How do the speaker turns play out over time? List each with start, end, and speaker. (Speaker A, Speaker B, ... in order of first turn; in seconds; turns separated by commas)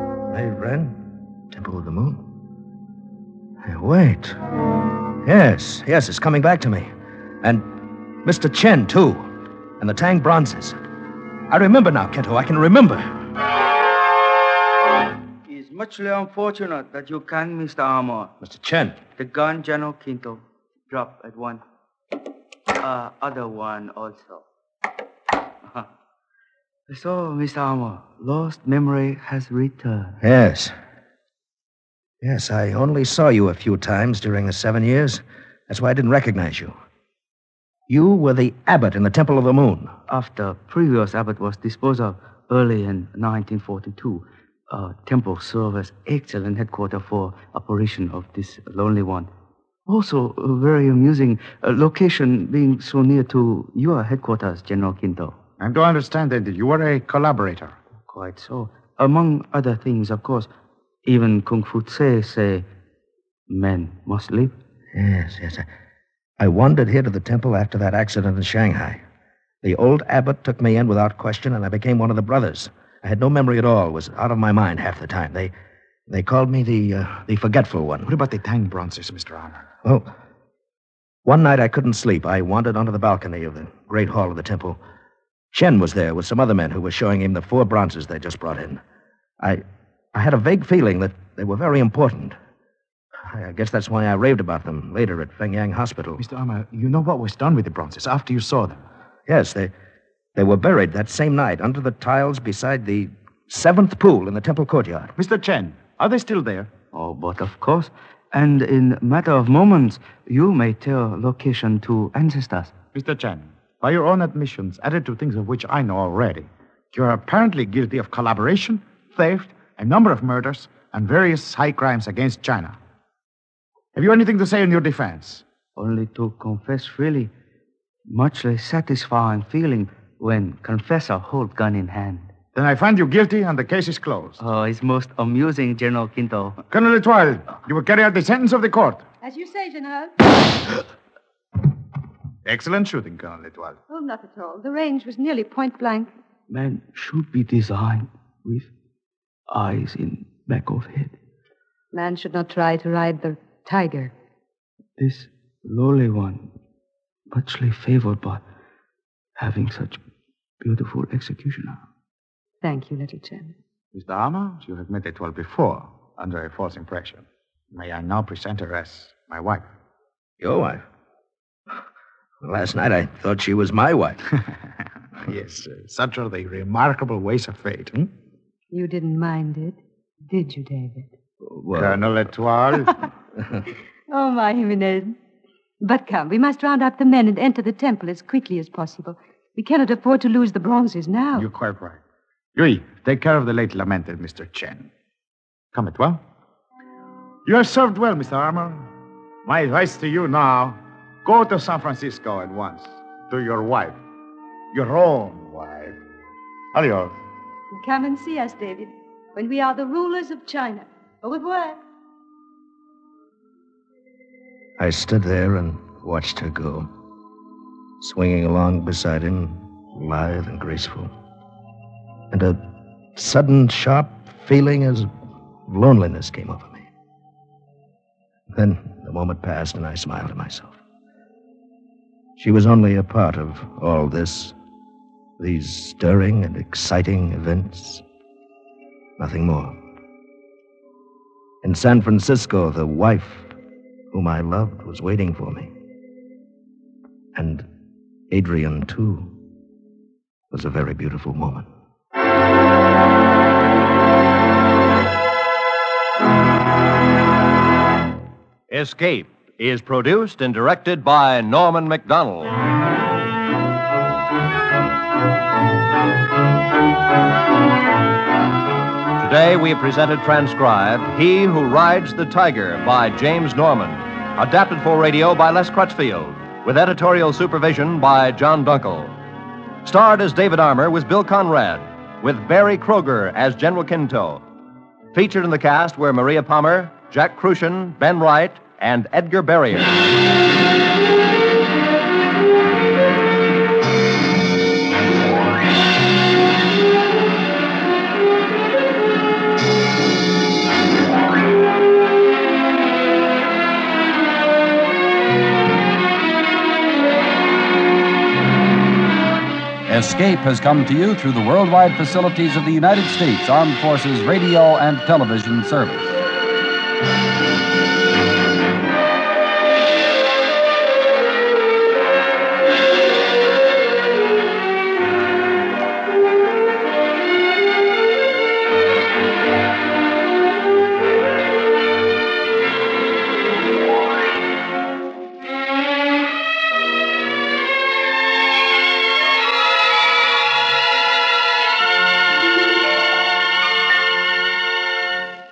Speaker A: 0.3-2.2, Speaker A: 3.6-4.4, Speaker A: 5.2-6.9, Speaker A: 7.4-7.7, Speaker A: 8.2-10.8, Speaker A: 11.5-13.1, Speaker B: 15.4-18.3, Speaker A: 18.4-19.0, Speaker B: 19.2-21.6, Speaker B: 22.8-24.4, Speaker B: 26.9-30.2, Speaker A: 30.2-30.8, Speaker A: 32.2-36.8, Speaker A: 37.9-40.0, Speaker B: 40.1-49.3, Speaker B: 49.9-55.4, Speaker C: 55.6-57.8, Speaker B: 58.0-60.5, Speaker B: 61.0-62.7, Speaker B: 63.5-64.5, Speaker A: 64.9-65.7, Speaker A: 66.4-69.0, Speaker A: 69.6-75.5, Speaker A: 76.1-78.1, Speaker C: 78.1-79.7, Speaker A: 79.8-80.1, Speaker A: 81.2-84.8, Speaker A: 85.5-88.8, Speaker A: 90.1-92.4, Speaker A: 93.3-96.2, Speaker C: 96.2-98.8, Speaker A: 99.3-99.7, Speaker A: 100.3-105.2, Speaker C: 105.2-106.7, Speaker B: 106.9-112.8, Speaker C: 112.9-122.8, Speaker C: 124.0-125.4, Speaker B: 125.8-127.3, Speaker B: 128.1-132.3, Speaker C: 132.6-134.4, Speaker B: 134.4-136.6, Speaker C: 136.7-139.0, Speaker D: 139.2-140.3, Speaker C: 142.4-143.8, Speaker D: 143.9-146.1, Speaker B: 146.5-148.7, Speaker B: 149.5-151.2, Speaker D: 151.9-154.1, Speaker B: 155.0-156.5, Speaker B: 157.3-158.4, Speaker B: 159.4-160.0, Speaker B: 160.6-161.8, Speaker D: 162.6-163.6, Speaker C: 163.9-169.7, Speaker A: 170.4-170.8, Speaker A: 172.4-174.2, Speaker C: 175.2-178.1, Speaker D: 178.7-181.1, Speaker A: 181.4-182.0, Speaker C: 181.7-183.0, Speaker D: 184.1-185.2, Speaker D: 185.8-191.5, Speaker C: 191.3-192.0, Speaker C: 192.5-194.9, Speaker C: 195.7-196.2, Speaker C: 197.5-198.9, Speaker C: 199.4-204.0, Speaker C: 204.7-206.0, Speaker C: 206.7-207.2, Speaker D: 207.7-211.8, Speaker A: 214.8-216.9, Speaker A: 218.0-221.1, Speaker A: 222.3-222.6, Speaker A: 223.2-225.1, Speaker A: 225.7-226.9, Speaker A: 228.5-230.8, Speaker A: 232.4-234.6, Speaker A: 235.4-238.0, Speaker A: 239.2-239.8, Speaker A: 241.6-243.5, Speaker A: 244.1-245.7, Speaker A: 247.3-247.7, Speaker A: 248.3-249.3, Speaker A: 250.5-251.7, Speaker E: 258.7-262.6, Speaker E: 269.2-279.1, Speaker E: 279.8-284.4, Speaker E: 285.1-290.0, Speaker F: 309.9-316.2